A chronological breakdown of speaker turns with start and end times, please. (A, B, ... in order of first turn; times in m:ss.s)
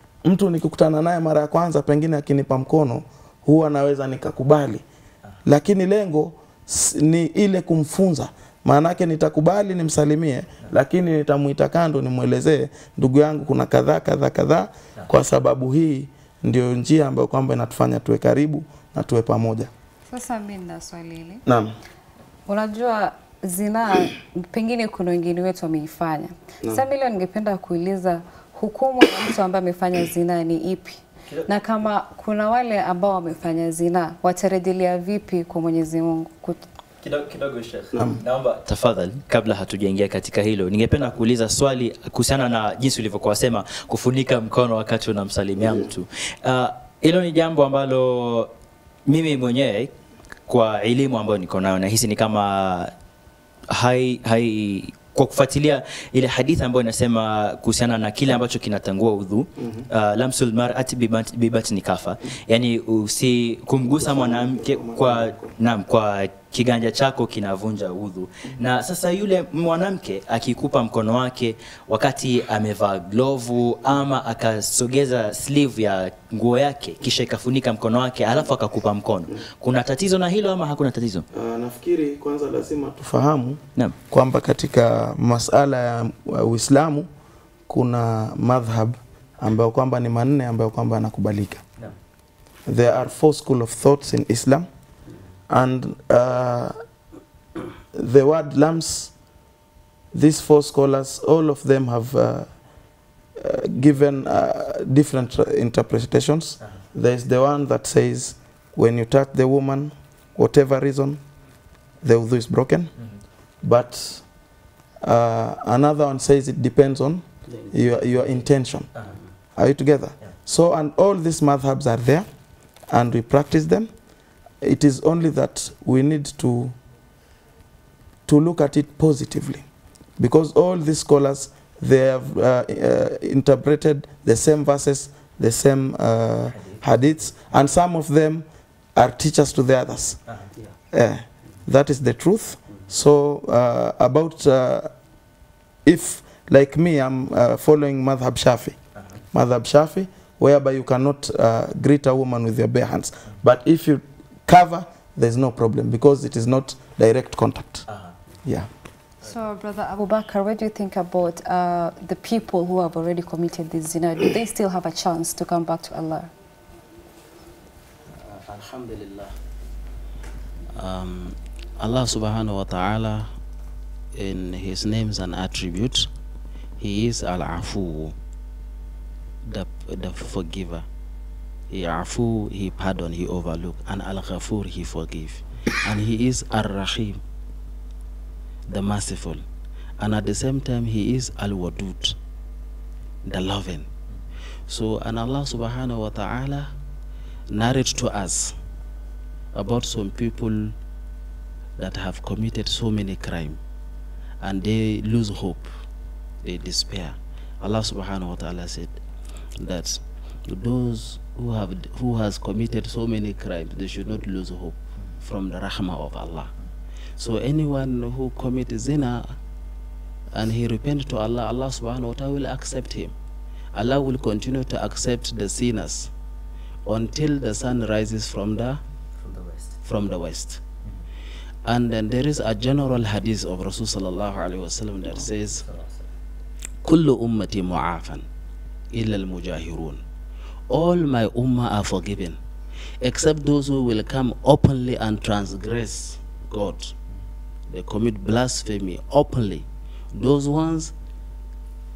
0:00.2-0:04.8 A
0:05.4-0:19.7 A
0:20.1-0:21.4 B
0:21.4-0:21.7 A
0:22.5-0:36.6 B
0:37.0-0:48.5 C
0:37.9-0:38.2 A
0:49.1-0:49.9 C
0:50.5-0:52.9 C
0:53.7-1:21.2 C
0:59.6-0:59.9 A
1:03.9-1:05.5 A
1:21.3-1:27.1 A
1:27.7-1:31.6 A
1:32.7-1:34.7 A
1:35.5-1:36.8 A
1:37.9-1:39.1 A
1:40.1-1:42.5 A
1:43.4-1:51.2 A
1:52.0-1:52.9 A
1:53.6-1:54.2 A
1:55.0-1:58.9 A
1:57.5-1:58.5 D
1:59.6-2:02.2 A
2:02.9-2:03.9 A
2:04.6-2:06.7 A
2:08.2-2:09.6 A
2:10.2-2:20.2 A
2:16.6-2:16.8 C
2:20.9-2:24.9 A
2:25.8-2:28.8 A
2:29.3-2:37.8 A
2:38.4-2:38.7 A
2:39.2-2:46.3 B
2:48.1-2:49.4 D
2:50.7-2:53.3 D
2:54.2-2:56.1 D
2:56.8-2:58.2 D
2:59.4-3:00.8 D
3:01.7-3:07.2 D
3:08.7-3:09.4 D
3:10.0-3:12.2 D
3:13.2-3:13.9 D
3:14.7-3:16.7 D
3:17.5-3:18.5 D
3:19.5-3:20.8 D
3:21.8-3:23.6 D
3:24.4-3:25.7 D
3:26.4-3:29.0 D
3:29.6-3:36.5 D
3:37.2-3:39.3 D
3:40.3-3:43.1 D
3:43.7-3:46.1 D
3:46.8-3:48.8 D
3:49.2-3:49.8 C
3:49.8-3:50.6 D
3:51.6-3:55.6 D
3:55.6-3:56.0 C
3:56.8-3:58.2 D
3:58.9-4:00.0 D
4:00.7-4:02.4 D
4:03.0-4:06.9 D
4:07.7-4:10.9 D